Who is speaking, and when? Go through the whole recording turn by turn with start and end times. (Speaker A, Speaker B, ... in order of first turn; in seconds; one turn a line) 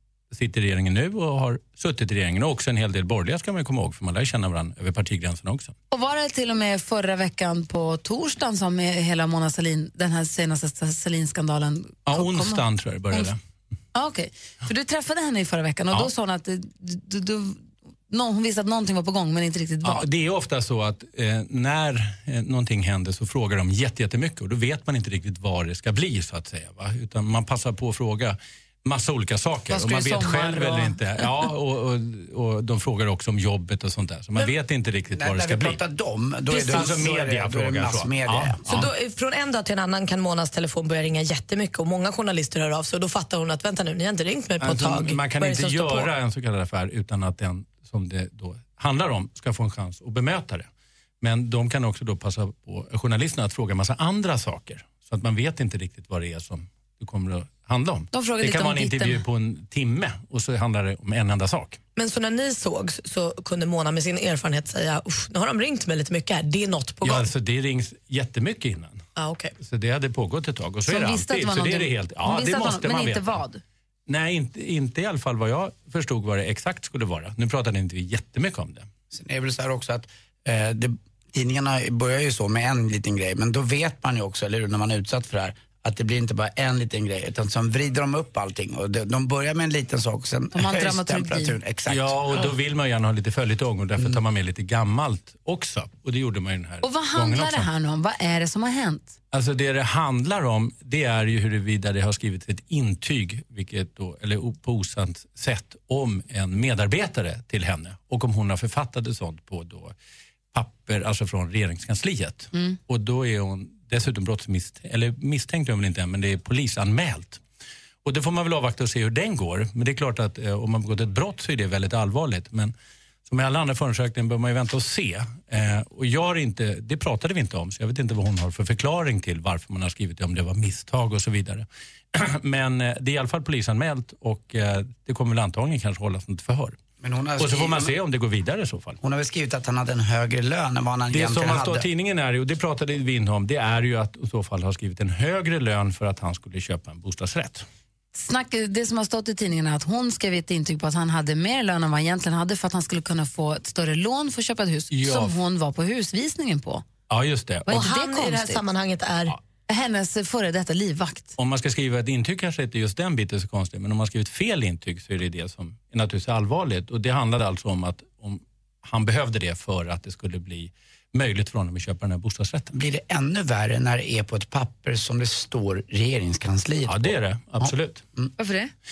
Speaker A: 0.3-5.8
Speaker B: 5.9-13.3
Speaker A: 12.1-13.4
Speaker B: 13.9-20.1
Speaker A: 19.8-35.8
Speaker B: 29.7-31.2
Speaker C: 35.2-38.6
Speaker A: 36.5-38.9
Speaker D: 38.7-46.1
Speaker A: 44.6-50.7
Speaker A: 51.2-61.8
Speaker B: 58.1-59.2
Speaker D: 62.0-67.3
Speaker A: 67.0-69.0
Speaker D: 69.2-69.5
Speaker A: 69.6-73.4
Speaker B: 70.9-73.6
Speaker A: 74.1-78.9
Speaker C: 79.1-92.4
Speaker B: 90.5-91.6
Speaker A: 91.9-97.7
Speaker B: 96.8-99.2
Speaker A: 99.3-110.0
Speaker A: 110.5-117.4
Speaker A: 118.0-122.7
Speaker A: 123.3-136.8
Speaker C: 137.0-137.9
Speaker A: 137.4-139.0
Speaker C: 139.0-141.8
Speaker A: 141.1-147.7
Speaker B: 148.2-156.8
Speaker A: 154.9-155.4
Speaker A: 157.1-157.9
Speaker B: 157.7-158.6
Speaker D: 157.7-159.4
Speaker B: 159.7-161.4
Speaker A: 161.4-172.7
Speaker C: 172.7-177.1
Speaker A: 176.9-178.0
Speaker C: 177.6-178.3
Speaker B: 178.4-178.7